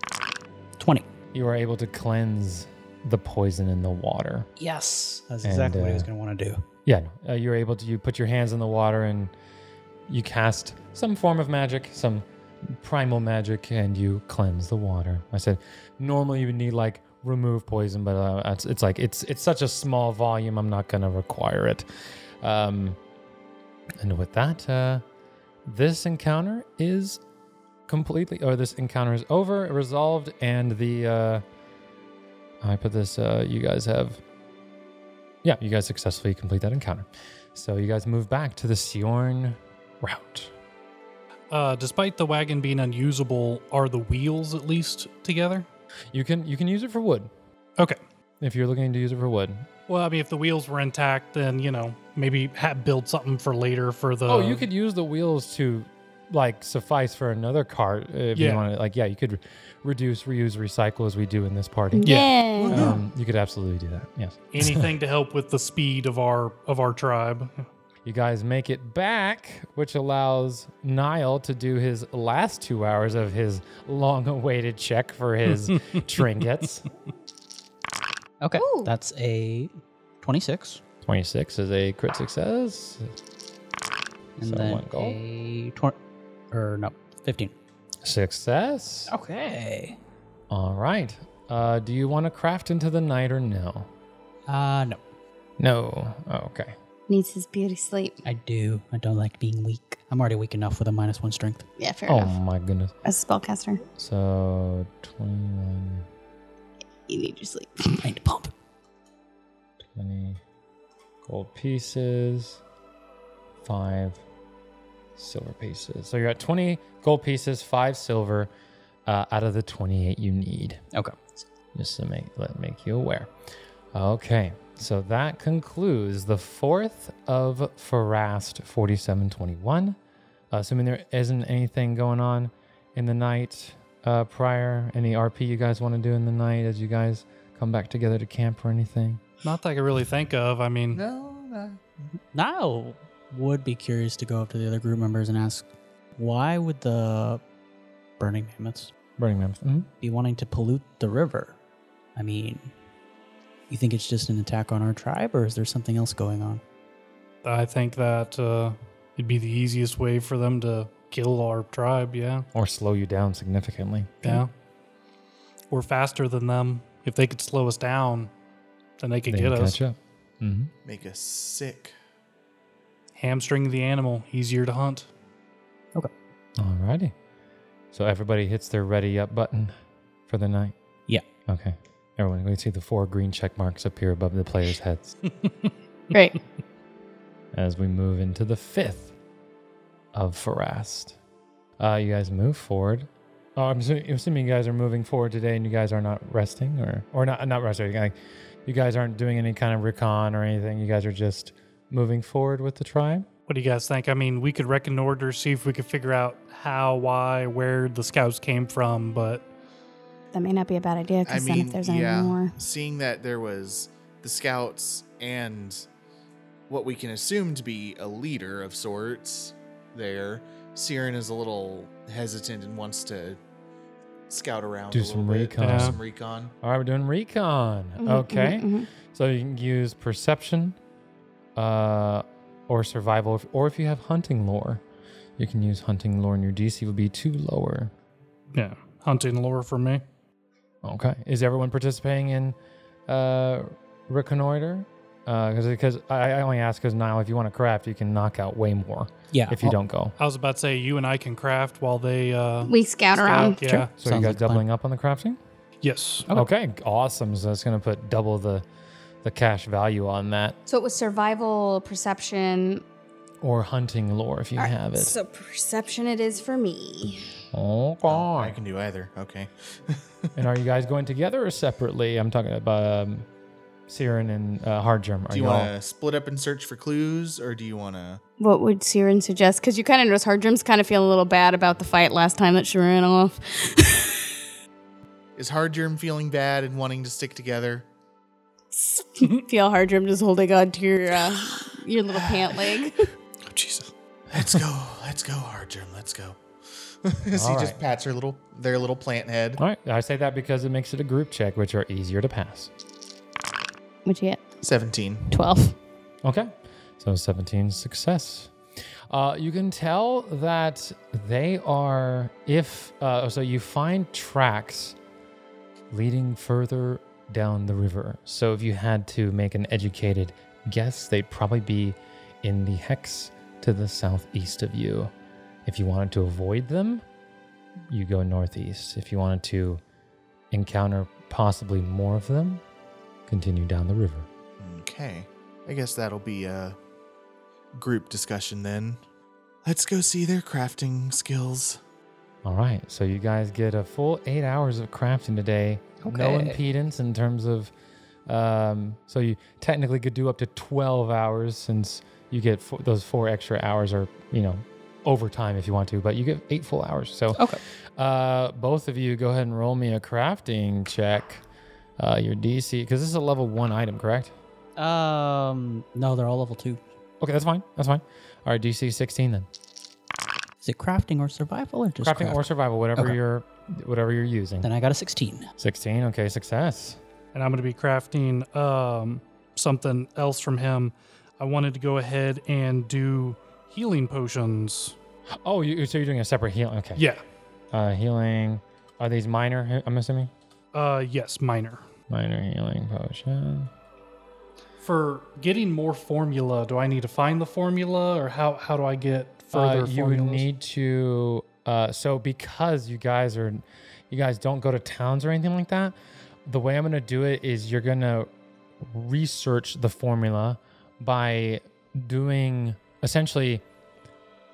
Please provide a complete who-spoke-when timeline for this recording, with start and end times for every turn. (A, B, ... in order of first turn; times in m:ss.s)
0:00.8-0:01.1 A
0:01.3-0:04.5 B
0:04.6-0:06.6 A
0:05.4-0:06.1 B
0:06.8-0:09.3 B
0:10.1-0:21.8 B
0:22.4-0:23.0 B
0:24.0-0:25.0 B
0:25.6-0:27.2 B
0:27.9-0:31.4 B
0:32.6-0:34.2 B
0:35.4-0:40.5 B
0:41.5-0:45.6 C
0:46.1-0:47.3 B
0:48.4-0:49.7 B
0:49.9-0:54.6 C
0:54.2-1:02.1 B
0:58.3-0:58.6 C
1:01.9-1:03.0 D
1:02.0-1:02.3 C
1:02.6-1:03.0 E
1:02.7-1:04.9 B
1:04.5-1:07.5 C
1:08.0-1:16.9 B
1:15.7-1:16.0 C
1:18.4-1:20.8 A
1:18.6-1:18.9 D
1:21.0-1:23.1 B
1:24.4-1:26.0 A
1:24.4-1:25.2 B
1:26.5-1:27.5 A
1:28.0-1:29.1 B
1:29.1-1:30.0 A
1:30.5-1:33.9 B
1:34.5-1:35.0 A
1:35.6-1:36.7 B
1:37.1-1:38.2 D
1:38.2-1:41.6 A
1:41.8-1:42.3 D
1:42.0-1:42.9 B
1:43.0-1:43.8 D
1:44.0-1:46.0 B
1:47.1-1:48.0 D
1:48.0-1:48.5 A
1:49.8-1:50.4 B
1:51.2-1:52.6 B
1:53.6-1:54.2 B
1:55.2-1:58.5 B
1:59.0-2:00.8 B
2:00.9-2:01.2 A
2:01.7-2:03.3 B
2:03.9-2:10.0 B
2:10.5-2:19.2 B
2:19.4-2:21.0 C
2:20.9-2:21.8 E
2:22.3-2:27.4 A
2:28.2-2:28.9 A
2:29.2-2:29.9 B
2:30.0-2:31.6 A
2:32.1-2:32.7 A
2:33.7-2:36.6 A
2:37.4-2:42.4 C
2:42.5-2:44.4 B
2:44.2-2:44.5 C
2:45.7-2:48.3 C
2:49.0-2:49.8 C
2:49.3-2:50.7 B
2:50.8-2:51.9 E
2:53.2-2:55.1 C
2:56.6-2:57.1 B
2:57.9-2:59.7 B
3:00.3-3:00.7 B
3:01.5-3:05.1 B
3:06.1-3:06.4 D
3:07.5-3:09.1 B
3:10.1-3:11.2 B
3:11.8-3:23.3 B
3:23.5-3:29.4 C
3:30.3-3:32.5 D
3:31.2-3:35.8 E
3:36.7-3:43.4 E
3:44.3-3:46.5 E
3:44.9-3:46.0 B
3:45.6-3:46.0 C
3:46.6-3:50.8 B
3:48.0-3:48.9 D
3:51.6-3:54.8 B
3:55.4-3:57.9 B
3:58.5-4:00.0 C
4:00.8-4:02.6 B
4:03.1-4:10.2 B
4:09.3-4:09.8 A
4:10.2-4:13.9 C
4:12.6-4:13.6 D
4:13.7-4:14.6 A
4:14.0-4:15.4 B
4:15.8-4:16.3 C
4:16.3-4:18.6 B
4:19.2-4:20.6 B
4:20.7-4:22.8 D
4:23.4-4:25.2 B
4:24.6-4:27.3 D
4:27.5-4:28.6 B
4:28.1-4:30.3 E
4:30.4-4:33.3 B
4:33.9-4:35.7 B
4:35.3-4:38.2 E
4:38.4-4:44.3 D
4:45.4-4:47.9 E
4:48.7-4:53.1 D
4:53.5-4:53.9 C
4:54.3-4:56.4 E
4:57.0-4:59.6 E
4:57.3-4:57.8 B
4:59.6-5:02.7 B
5:04.0-5:04.4 D
5:04.6-5:05.3 E
5:05.3-5:05.8 D
5:06.2-5:08.5 B
5:09.1-5:15.0 B
5:15.9-5:25.1 B
5:25.6-5:27.0 B
5:27.9-5:29.8 B
5:30.5-5:32.6 B
5:33.3-5:34.3 B
5:34.6-5:36.8 E
5:37.7-5:39.0 E
5:39.6-5:41.8 E
5:42.4-5:47.7 B
5:46.0-5:46.6 A
5:48.2-5:57.4 B
5:57.3-5:57.6 A
5:58.0-6:01.4 B
6:02.0-6:04.3 B
6:04.8-6:06.8 A
6:07.2-6:09.5 B
6:10.6-6:13.2 A
6:12.0-6:14.7 B
6:14.6-6:15.5 A
6:15.6-6:17.0 B
6:17.3-6:24.9 C
6:25.4-6:27.0 B
6:27.7-6:30.3 B
6:30.7-6:31.8 C
6:32.1-6:33.7 B
6:34.8-6:40.4 C
6:39.5-6:45.9 B
6:46.4-6:48.3 B
6:48.8-6:53.6 B